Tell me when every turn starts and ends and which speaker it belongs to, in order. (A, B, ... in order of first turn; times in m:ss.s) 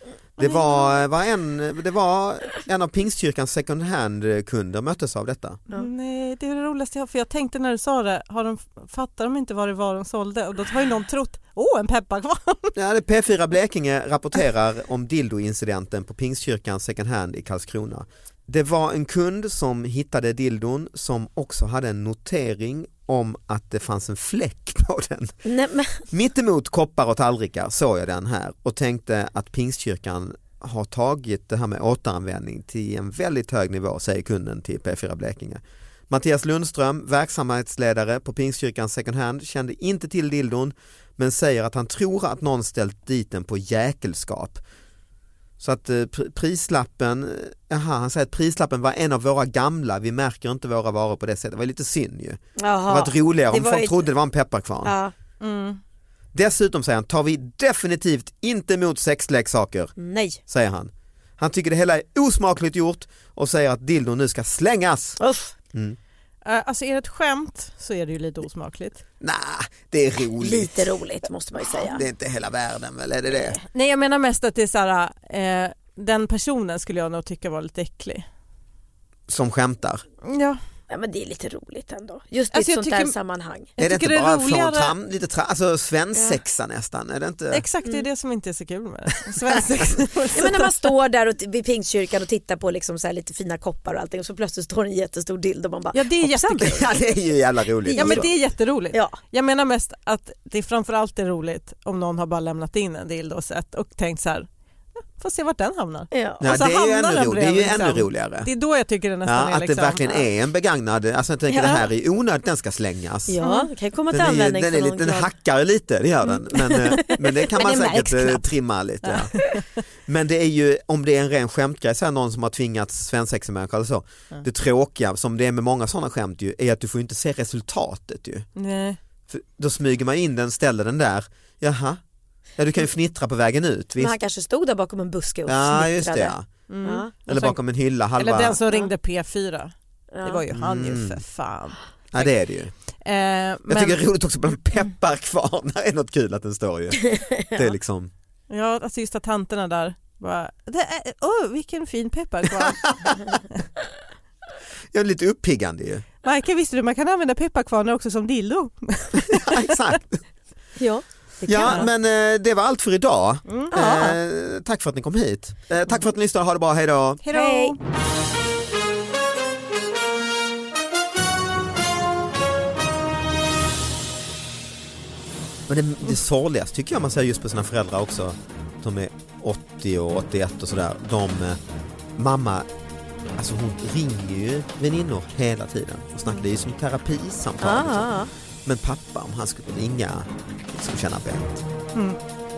0:00.4-0:05.6 A
0:05.7-0:12.7 B
0:12.8-0:25.3 A
0:25.4-0:26.0 C
0:26.1-0:44.6 A
0:45.6-0:55.0 A
0:52.6-0:54.0 C
0:54.8-0:55.1 C
0:55.4-0:55.8 B
0:56.3-0:59.9 A
1:00.0-1:00.4 C
1:00.5-1:05.2 A
1:05.2-1:05.5 C
1:05.7-1:06.0 A
1:06.4-1:09.0 B
1:09.2-1:10.9 A
1:10.4-1:12.0 C
1:11.6-1:13.6 A
1:13.7-1:18.2 B
1:19.3-1:20.0 A
1:20.2-1:20.6 B
1:20.9-1:23.7 C
1:22.5-1:23.1 B
1:23.8-1:24.9 B
1:23.8-1:27.6 A
1:27.5-1:30.8 B
1:29.3-1:29.6 A
1:30.3-1:36.9 C
1:35.9-1:36.8 B
1:36.6-1:38.3 A
1:37.8-1:38.3 C
1:38.0-1:44.5 B
1:38.9-1:39.2 C
1:45.2-1:50.2 B
1:46.1-1:46.4 C
1:46.4-1:48.5 A
1:49.2-1:53.4 A
1:51.5-1:51.8 C
1:53.3-1:55.3 C
1:53.4-1:53.7 B
1:54.1-1:59.4 A
1:56.5-1:58.4 C
1:59.0-1:59.6 B
2:00.1-2:08.5 A
2:08.6-2:09.0 B
2:09.3-2:12.0 A
2:12.6-2:14.2 A
2:14.0-2:17.1 C
2:15.5-2:16.5 A
2:16.7-2:17.6 B
2:17.3-2:18.6 A
2:18.2-2:19.7 B
2:20.1-2:20.4 C
2:20.2-2:22.3 B
2:20.5-2:21.2 A
2:22.1-2:22.7 A
2:23.0-2:24.0 B
2:23.7-2:28.1 A
2:27.1-2:27.6 C
2:28.5-2:33.3 B
2:32.6-2:33.3 A
2:34.9-2:36.0 A
2:36.2-2:40.0 B
2:39.3-2:40.2 A
2:40.8-2:41.8 C
2:41.4-2:47.2 A
2:43.5-2:44.0 B
2:43.7-2:44.2 C
2:47.2-2:47.8 B
2:47.3-2:47.8 C
2:55.7-3:01.6 A
3:02.2-3:02.7 A
3:03.3-3:08.1 A
3:07.6-3:08.3 C
3:08.6-3:11.5 A